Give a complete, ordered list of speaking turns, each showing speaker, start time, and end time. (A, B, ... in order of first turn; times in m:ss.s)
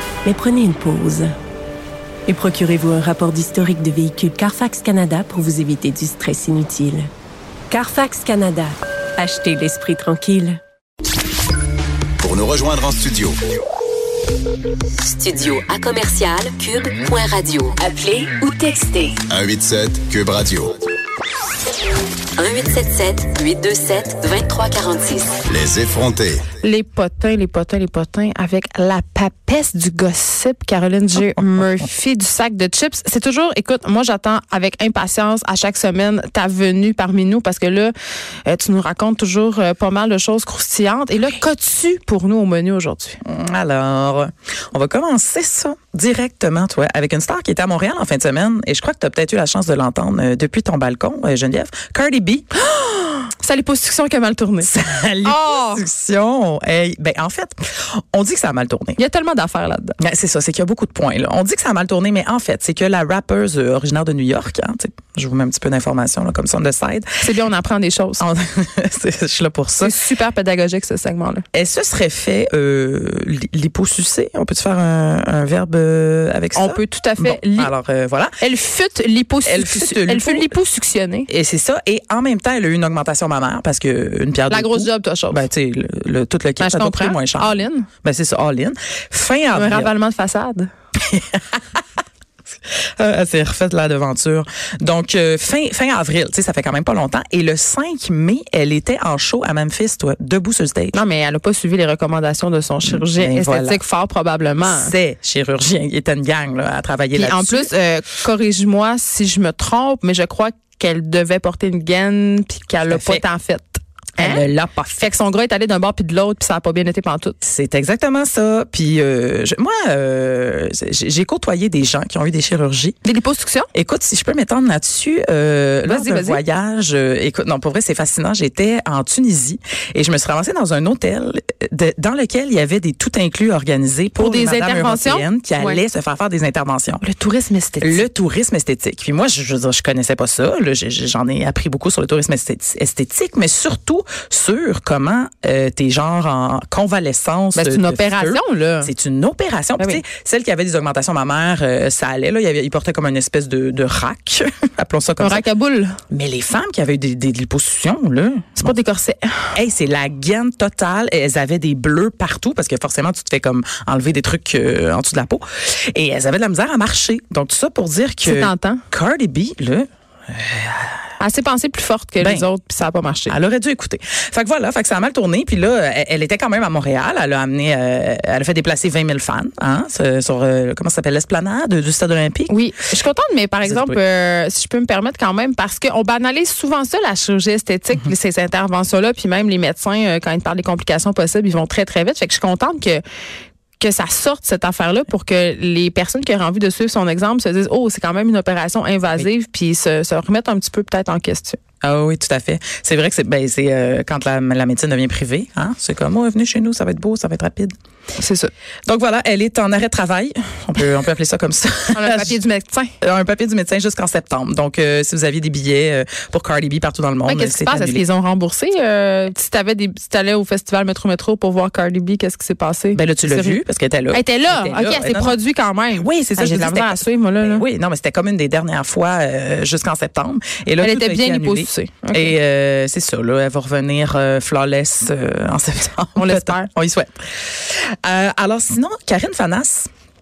0:00.2-0:01.3 A
0:02.3-0:07.1 A
0:07.7-0:10.6 A
0:12.2-0:13.4 B
0:15.0-0:17.8 C
0:17.8-0:19.2 A
0:19.3-0:20.8 B
0:22.4-0:25.3 C
0:25.2-0:26.4 B
0:26.6-0:37.9 D
0:38.4-0:43.2 D
0:43.2-0:52.5 E
0:52.7-0:54.7 D
0:54.6-0:59.0 E
0:55.2-0:55.8 D
0:59.0-1:00.0 D
1:00.0-1:07.1 E
1:07.2-1:08.2 D
1:08.2-1:09.9 E
1:09.8-1:11.4 D
1:11.5-1:18.4 E
1:16.6-1:17.7 D
1:18.4-1:21.3 D
1:19.4-1:20.6 E
1:21.3-1:29.9 E
1:24.5-1:25.5 D
1:26.6-1:27.9 D
1:29.5-1:30.7 D
1:31.0-1:31.8 E
1:32.8-1:41.0 E
1:40.9-1:44.9 D
1:42.8-1:43.8 E
1:44.6-1:47.7 E
1:47.1-1:54.4 D
1:52.8-1:53.2 E
1:54.2-1:55.1 E
1:55.0-1:57.4 D
1:57.4-2:03.0 E
2:03.0-2:03.7 D
2:03.7-2:17.0 E
2:05.8-2:06.4 D
2:14.2-2:15.8 D
2:17.0-2:18.0 D
2:17.8-2:35.4 E
2:27.6-2:28.9 D
2:35.2-2:36.0 D
2:36.1-2:38.8 E
2:38.6-2:39.5 D
2:39.5-2:51.0 E
2:48.2-2:48.8 D
2:51.2-2:53.4 D
2:52.2-2:52.5 E
2:53.3-3:02.6 E
3:02.5-3:13.0 D
3:03.6-3:04.0 E
3:13.8-3:21.6 D
3:21.8-3:27.7 E
3:28.2-3:28.5 D
3:28.9-3:32.4 E
3:31.9-3:32.9 D
3:33.0-3:38.0 E
3:37.3-3:43.6 D
3:42.9-3:45.4 E
3:44.1-3:47.7 D
3:46.0-3:59.9 E
3:50.8-3:52.4 D
3:56.2-3:56.7 D